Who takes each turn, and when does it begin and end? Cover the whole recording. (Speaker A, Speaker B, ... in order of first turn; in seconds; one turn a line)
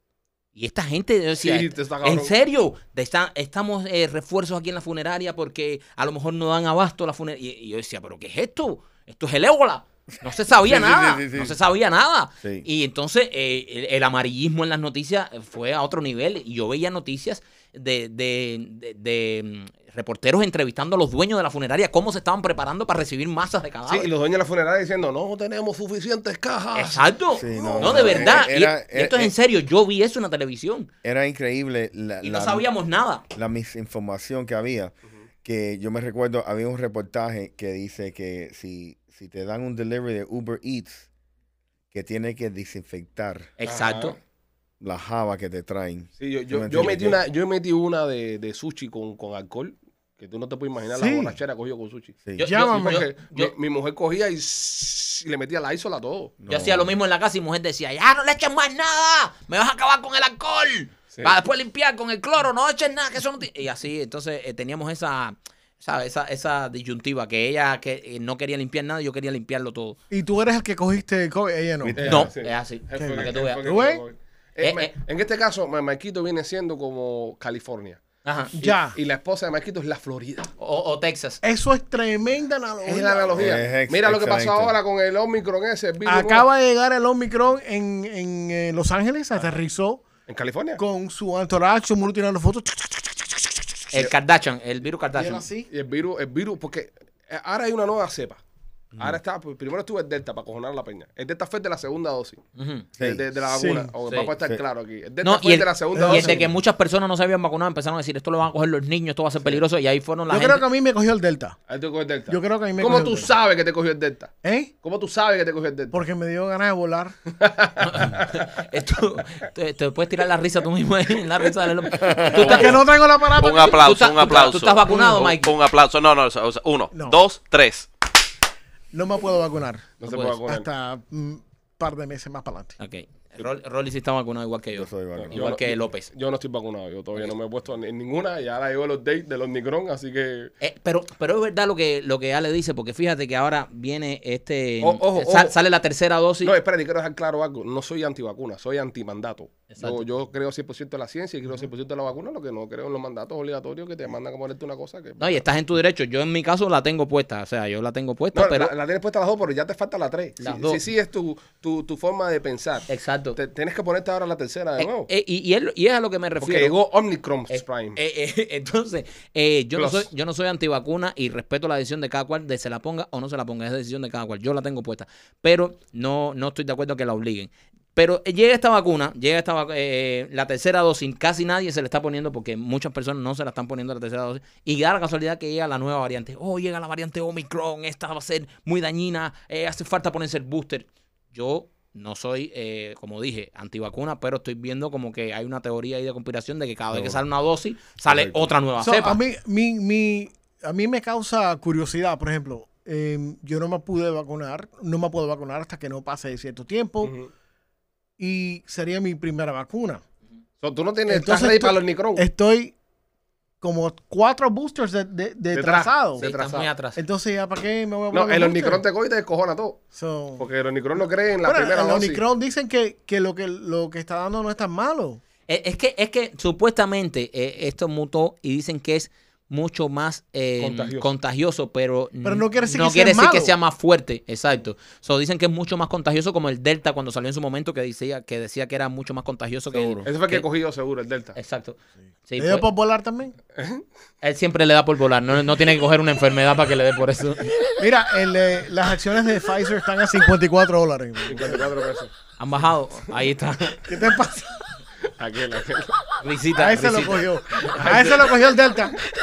Speaker A: 0.6-24.1
Speaker B: 1.4-2.3
Speaker C: 10.6-11.6
Speaker B: 23.9-28.5
Speaker A: 26.7-30.9
Speaker C: 27.4-29.3
Speaker C: 31.0-32.7
Speaker A: 32.2-33.2
Speaker C: 33.3-41.1
Speaker C: 41.9-43.5
Speaker A: 43.6-44.2
Speaker B: 43.7-44.2
Speaker C: 44.8-47.2
Speaker B: 46.2-56.4
Speaker D: 51.0-51.4
Speaker A: 52.4-53.5
Speaker D: 52.4-53.0
Speaker C: 56.4-56.9
Speaker A: 56.5-70.0
Speaker D: 70.1-72.0
Speaker C: 71.8-72.3
Speaker B: 72.0-78.0
Speaker A: 72.0-73.6
Speaker D: 73.0-74.0
Speaker A: 74.6-74.9
Speaker A: 78.2-78.5
Speaker D: 78.5-79.0
Speaker B: 78.6-80.5
Speaker A: 80.6-81.4
Speaker D: 81.4-83.6
Speaker B: 82.8-86.5
Speaker C: 83.4-84.8
Speaker D: 86.1-90.0
Speaker B: 90.3-90.8
Speaker D: 90.8-93.6
Speaker A: 93.9-95.5
Speaker D: 95.2-95.7
Speaker B: 95.7-98.4
Speaker C: 98.9-99.2
Speaker B: 99.0-102.4
Speaker A: 102.6-102.9
Speaker B: 103.0-106.4
Speaker D: 103.5-103.9
Speaker A: 105.2-110.6
Speaker D: 106.0-106.5
Speaker D: 110.3-111.6
Speaker B: 111.7-116.0
Speaker D: 112.3-113.3
Speaker D: 114.4-114.7
Speaker D: 115.9-117.1
Speaker B: 117.4-118.3
Speaker A: 117.8-122.8
Speaker C: 121.9-122.7
Speaker D: 122.3-123.8
Speaker E: 122.5-127.9
Speaker A: 123.7-125.5
Speaker D: 126.9-127.2
Speaker D: 128.9-129.9
Speaker B: 130.0-130.7
Speaker A: 130.0-130.4
Speaker D: 130.5-132.8
Speaker A: 132.8-136.1
Speaker C: 134.8-135.4
Speaker B: 135.2-140.5
Speaker A: 140.6-146.5
Speaker B: 144.8-145.5
Speaker B: 146.4-155.4
Speaker A: 149.7-150.0
Speaker A: 155.2-158.7
Speaker B: 158.3-165.1
Speaker A: 160.4-160.8
Speaker A: 162.9-163.4
Speaker A: 164.8-166.8
Speaker B: 166.4-168.0
Speaker A: 167.5-199.2
Speaker B: 169.8-170.1
Speaker C: 196.9-197.2
Speaker C: 198.1-198.5
Speaker D: 198.8-207.1
Speaker B: 207.0-207.3
Speaker D: 208.2-210.0
Speaker B: 210.6-212.3
Speaker D: 211.1-212.8
Speaker D: 213.6-216.2
Speaker B: 215.5-216.7
Speaker A: 216.2-217.0
Speaker D: 216.9-218.8
Speaker B: 218.1-219.9
Speaker D: 219.9-220.4
Speaker B: 220.4-222.2
Speaker D: 221.4-225.2
Speaker A: 225.5-240.5
Speaker B: 230.6-231.1
Speaker D: 232.2-233.5
Speaker B: 240.0-241.4
Speaker A: 241.3-242.7
Speaker D: 242.4-243.4
Speaker B: 243.6-243.8
Speaker A: 244.2-247.6
Speaker D: 247.8-251.7
Speaker B: 251.3-252.1
Speaker A: 252.4-253.8
Speaker D: 253.9-254.5
Speaker B: 255.2-256.0
Speaker A: 256.2-257.2
Speaker D: 256.6-259.0
Speaker B: 257.7-258.4